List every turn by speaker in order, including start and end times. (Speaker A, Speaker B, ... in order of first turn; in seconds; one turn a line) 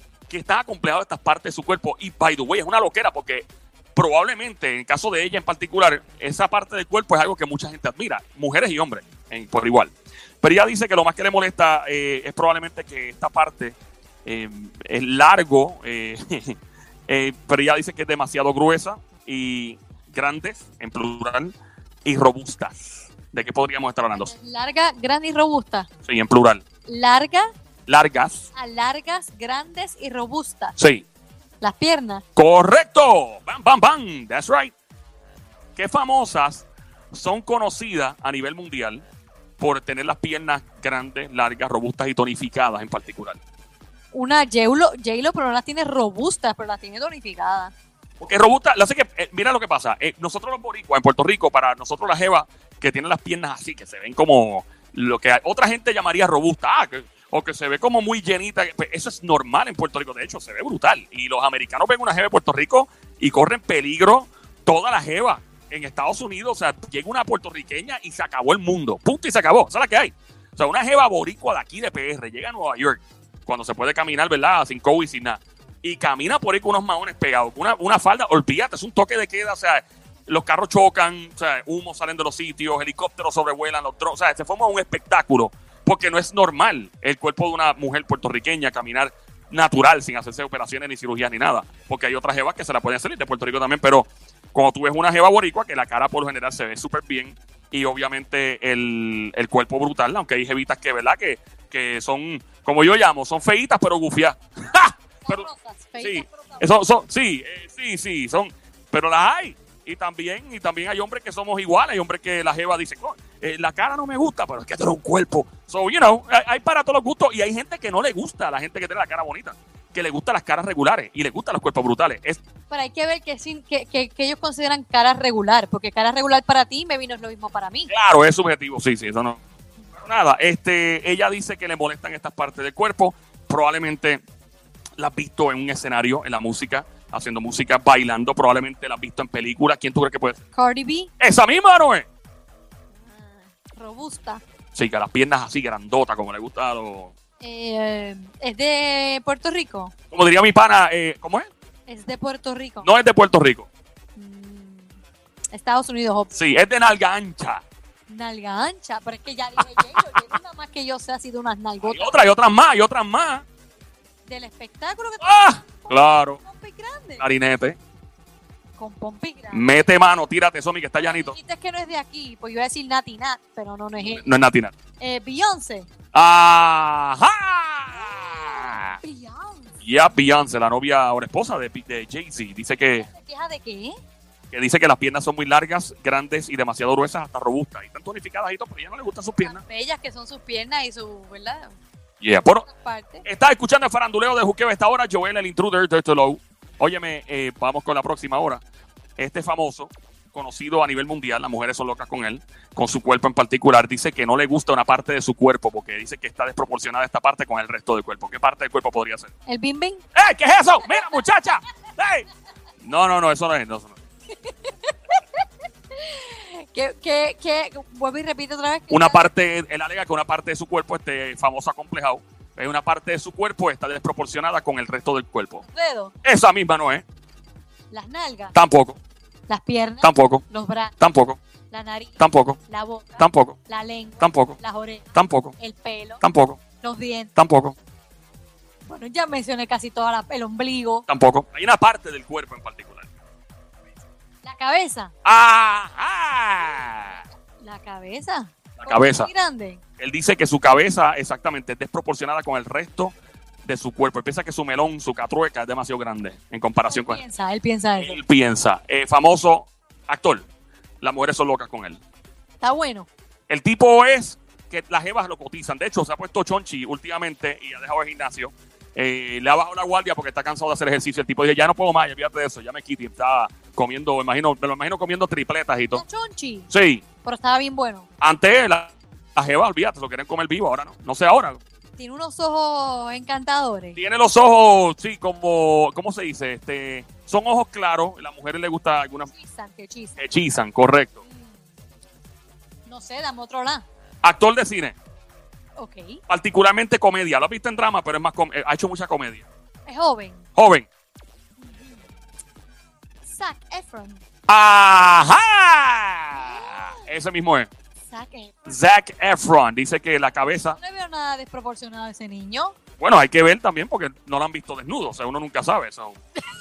Speaker A: 0.3-21.5
Speaker A: 22.1-24.3
Speaker B: 24.2-25.9
Speaker A: 26.0-26.6
Speaker B: 26.9-27.4
Speaker A: 27.9-28.5
Speaker B: 28.5-30.8
Speaker A: 30.8-31.1
Speaker B: 31.6-32.2
Speaker A: 32.4-34.7
Speaker A: 35.8-39.0
Speaker A: 39.6-43.4
Speaker B: 44.1-47.7
Speaker A: 48.2-105.5
Speaker B: 105.3-106.7
Speaker A: 106.0-122.4
Speaker B: 122.7-127.9
Speaker A: 127.9-129.4
Speaker A: 130.0-134.2
Speaker A: 135.0-140.4
Speaker B: 140.6-141.1
Speaker A: 141.2-142.1
Speaker B: 143.0-144.4
Speaker A: 144.7-147.1
Speaker B: 147.4-149.9
Speaker A: 150.1-151.5
Speaker B: 151.9-152.9
Speaker A: 152.8-153.7
Speaker B: 154.2-155.0
Speaker B: 155.5-156.4
Speaker A: 156.3-157.6
Speaker B: 158.1-162.2
Speaker A: 161.8-163.5
Speaker B: 164.3-167.2
Speaker A: 165.2-166.4
Speaker A: 167.2-167.8
Speaker B: 168.8-169.7
Speaker A: 169.5-171.4
Speaker B: 171.0-174.3
Speaker A: 174.1-174.8
Speaker B: 175.0-175.9
Speaker A: 176.1-179.0
Speaker B: 177.9-179.7
Speaker A: 179.8-183.1
Speaker B: 183.0-184.0
Speaker A: 184.5-189.6
Speaker B: 189.4-191.8
Speaker A: 192.2-192.7
Speaker B: 192.4-193.2
Speaker A: 193.2-198.6
Speaker A: 199.2-209.3
Speaker B: 209.5-210.0
Speaker A: 210.2-212.3
Speaker B: 210.8-211.1
Speaker A: 212.8-214.0
Speaker B: 214.4-215.4
Speaker B: 215.9-219.3
Speaker A: 218.9-225.6
Speaker B: 225.6-226.1
Speaker A: 226.2-227.1
Speaker B: 227.9-228.5
Speaker A: 228.5-229.0
Speaker B: 229.5-230.9
Speaker A: 230.0-230.4
Speaker A: 231.0-231.4
Speaker B: 231.7-236.2
Speaker A: 232.2-232.6
Speaker A: 233.2-233.6
Speaker A: 234.2-234.6
Speaker A: 235.1-235.6
Speaker A: 236.2-236.6
Speaker B: 236.8-237.3
Speaker A: 237.4-237.8
Speaker B: 238.8-241.1
Speaker A: 241.1-243.1
Speaker B: 244.4-245.1
Speaker A: 245.2-247.2
Speaker B: 247.6-249.8
Speaker A: 248.8-249.3
Speaker A: 250.0-257.2
Speaker B: 256.9-258.2
Speaker A: 258.0-260.5
Speaker A: 261.0-262.0
Speaker B: 262.6-263.1
Speaker A: 263.5-276.0
Speaker B: 275.9-276.7
Speaker A: 276.7-277.1
Speaker B: 277.2-278.1
Speaker A: 278.2-281.6
Speaker B: 282.0-284.0
Speaker A: 284.0-289.3
Speaker B: 289.3-290.2
Speaker A: 290.2-291.2
Speaker B: 291.2-291.6
Speaker B: 292.9-293.9
Speaker A: 294.2-295.0
Speaker B: 295.8-296.2
Speaker A: 296.3-299.5
Speaker B: 299.9-300.4
Speaker A: 300.6-300.9
Speaker B: 301.6-302.0
Speaker B: 303.3-304.2
Speaker A: 304.5-307.7
Speaker B: 306.4-307.0
Speaker B: 308.1-308.8
Speaker A: 308.7-310.8
Speaker B: 310.8-312.8
Speaker A: 313.0-316.2